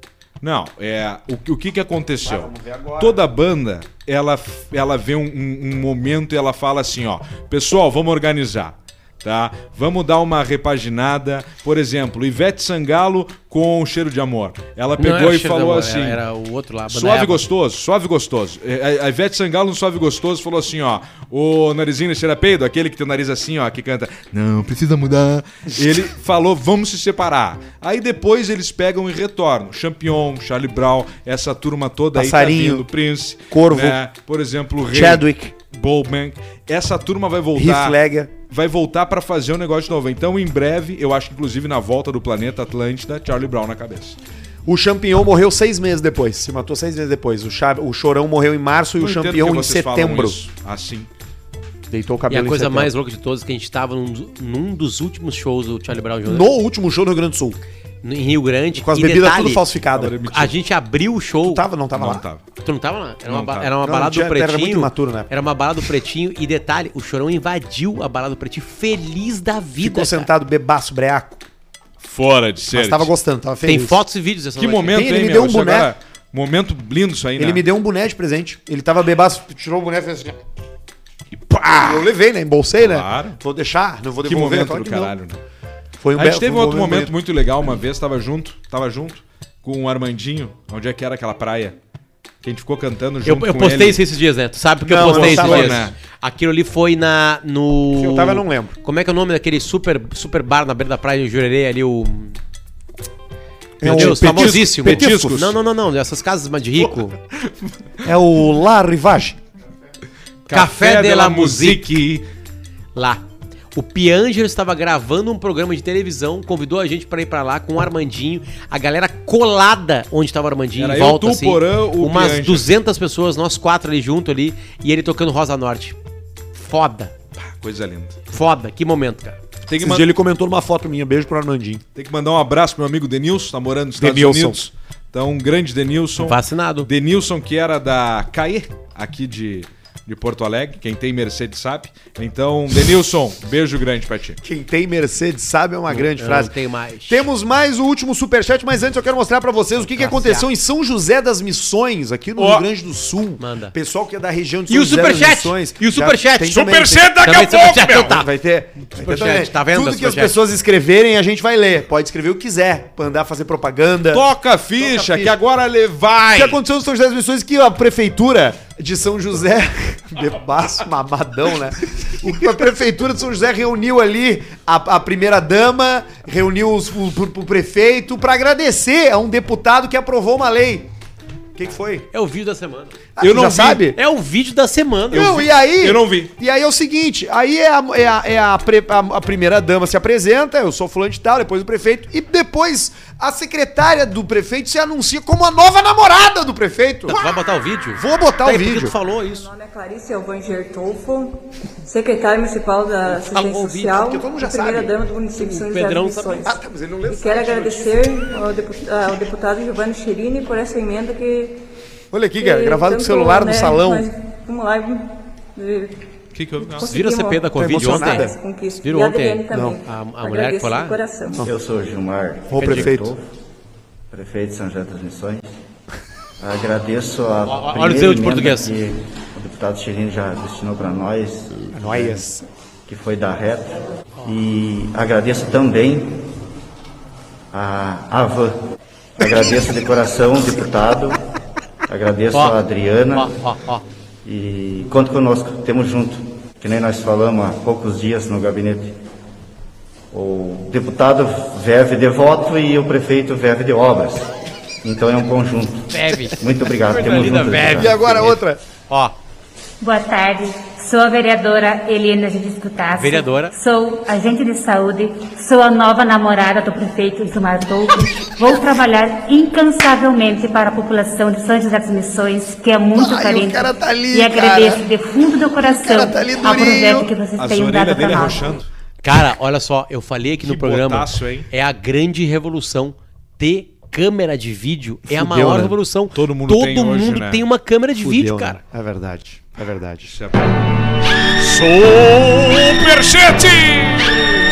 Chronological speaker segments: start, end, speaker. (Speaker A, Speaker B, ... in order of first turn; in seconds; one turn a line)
Speaker A: 0.4-16.2
Speaker B: 2.2-3.2
Speaker C: 15.0-17.4
Speaker A: 16.9-44.2
Speaker B: 32.1-32.9
Speaker B: 33.5-34.0
Speaker B: 34.9-35.5
Speaker B: 37.5-38.3
Speaker B: 44.7-50.4
Speaker A: 49.0-51.1
Speaker B: 51.9-52.9
Speaker C: 52.3-56.5
Speaker B: 56.2-57.6
Speaker C: 58.0-59.6
Speaker B: 58.8-60.2
Speaker A: 60.0-60.5
Speaker C: 60.3-61.6
Speaker B: 61.4-62.2
Speaker A: 62.0-62.4
Speaker C: 62.6-70.3
Speaker A: 63.3-63.7
Speaker B: 63.8-65.3
Speaker B: 69.8-71.4
Speaker A: 72.0-73.1
Speaker B: 72.7-74.0
Speaker C: 73.7-75.1
Speaker A: 74.6-77.6
Speaker B: 74.9-75.9
Speaker B: 77.4-80.4
Speaker A: 81.3-82.1
Speaker B: 81.8-85.1
Speaker A: 82.8-83.4
Speaker A: 84.2-85.4
Speaker B: 86.0-87.1
Speaker A: 86.2-91.8
Speaker A: 92.4-94.0
Speaker C: 93.2-102.4
Speaker B: 94.9-95.9
Speaker A: 95.0-96.0
Speaker B: 97.9-98.8
Speaker B: 103.8-105.4
Speaker A: 103.8-105.6
Speaker C: 103.8-107.2
Speaker A: 107.4-107.7
Speaker B: 108.0-109.4
Speaker A: 110.5-112.2
Speaker C: 110.5-111.9
Speaker C: 113.0-126.0
Speaker A: 120.8-122.7
Speaker C: 126.5-127.1
Speaker A: 127.4-128.2
Speaker C: 128.3-129.4
Speaker A: 129.7-130.1
Speaker B: 129.8-131.8
Speaker A: 132.0-144.4
Speaker B: 134.0-134.6
Speaker C: 136.2-136.9
Speaker B: 144.4-146.5
Speaker C: 145.9-147.3
Speaker B: 147.1-157.2
Speaker C: 149.8-150.5
Speaker A: 152.4-152.7
Speaker C: 153.4-153.8
Speaker C: 154.7-158.3
Speaker A: 156.4-158.2
Speaker B: 157.9-164.3
Speaker C: 158.9-160.4
Speaker A: 164.1-166.6
Speaker B: 164.8-165.3
Speaker B: 166.3-180.9
Speaker B: 181.6-182.1
Speaker C: 182.1-183.0
Speaker B: 183.2-184.0
Speaker A: 183.2-183.8
Speaker C: 183.9-185.3
Speaker A: 185.1-186.3
Speaker B: 185.1-197.2
Speaker C: 197.1-199.5
Speaker B: 198.0-198.9
Speaker D: 199.2-211.6
Speaker C: 203.1-204.0
Speaker B: 203.9-205.0
Speaker C: 205.3-206.5
Speaker B: 206.4-208.1
Speaker B: 212.1-214.1
Speaker D: 212.4-216.0
Speaker A: 216.3-216.9
Speaker D: 216.6-221.5
Speaker C: 216.8-221.0
Speaker B: 217.6-218.4
Speaker B: 219.5-219.8
Speaker E: 221.4-223.3
Speaker B: 222.5-223.1
Speaker C: 222.6-222.9
Speaker E: 224.1-225.4
Speaker E: 226.4-232.2
Speaker C: 227.4-228.7
Speaker B: 231.7-232.5
Speaker E: 232.9-236.2
Speaker E: 237.5-238.6
Speaker E: 239.2-241.2
Speaker E: 241.9-243.4
Speaker C: 242.3-242.6
Speaker C: 243.1-243.8
Speaker E: 244.2-248.9
Speaker E: 250.1-254.3
Speaker E: 254.8-258.1
Speaker C: 255.9-259.1
Speaker B: 257.6-258.6
Speaker F: 259.8-278.5
Speaker C: 262.9-263.5
Speaker B: 272.9-274.8
Speaker B: 275.6-277.1
Speaker A: 277.4-278.7
Speaker C: 279.0-288.6
Speaker A: 280.4-281.5
Speaker B: 285.1-285.8
Speaker A: 286.1-287.4
Speaker B: 288.0-290.1
Speaker A: 290.1-290.7
Speaker A: 291.2-294.3